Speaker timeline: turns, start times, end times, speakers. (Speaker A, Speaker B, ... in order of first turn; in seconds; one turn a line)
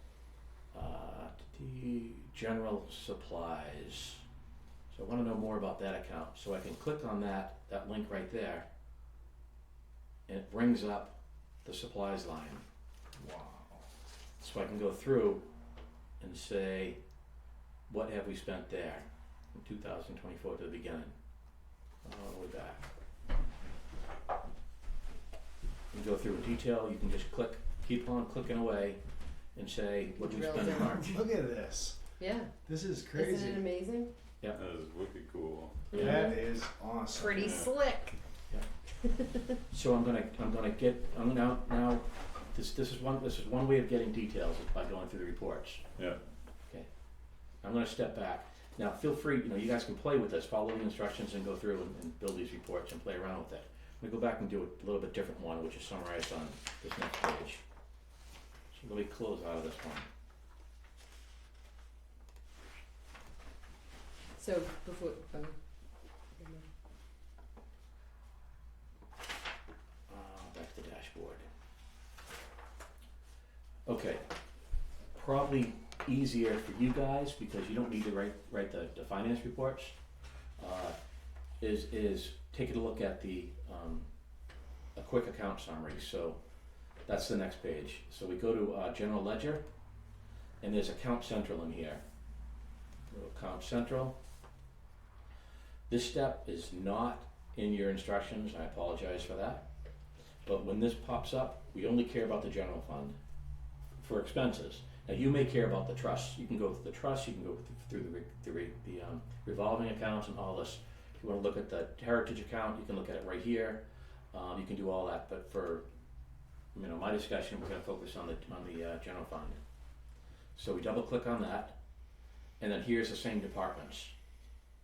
Speaker A: 0.7-4.2
Speaker A: 4.9-8.7
Speaker A: 10.3-12.6
Speaker B: 13.2-13.8
Speaker A: 14.4-15.4
Speaker A: 16.2-17.0
Speaker A: 17.9-21.1
Speaker A: 22.0-22.9
Speaker A: 25.9-29.0
Speaker A: 29.6-31.2
Speaker C: 30.2-31.2
Speaker B: 30.9-32.0
Speaker C: 32.2-32.5
Speaker B: 32.6-33.7
Speaker C: 33.1-34.1
Speaker D: 34.5-36.4
Speaker C: 35.9-36.4
Speaker B: 35.9-37.6
Speaker C: 37.1-38.2
Speaker D: 37.3-37.7
Speaker C: 39.0-39.5
Speaker A: 39.7-45.8
Speaker A: 47.6-57.6
Speaker A: 58.7-60.1
Speaker C: 64.4-66.7
Speaker A: 70.1-71.4
Speaker A: 73.9-74.2
Speaker A: 75.1-80.0
Speaker A: 80.6-81.0
Speaker A: 81.6-84.1
Speaker A: 85.0-86.4
Speaker A: 87.1-89.6
Speaker A: 90.6-92.0
Speaker A: 93.1-94.2
Speaker A: 95.9-99.6
Speaker A: 100.5-103.2
Speaker A: 104.0-115.8
Speaker A: 116.7-119.6
Speaker A: 120.5-121.8
Speaker A: 122.6-124.1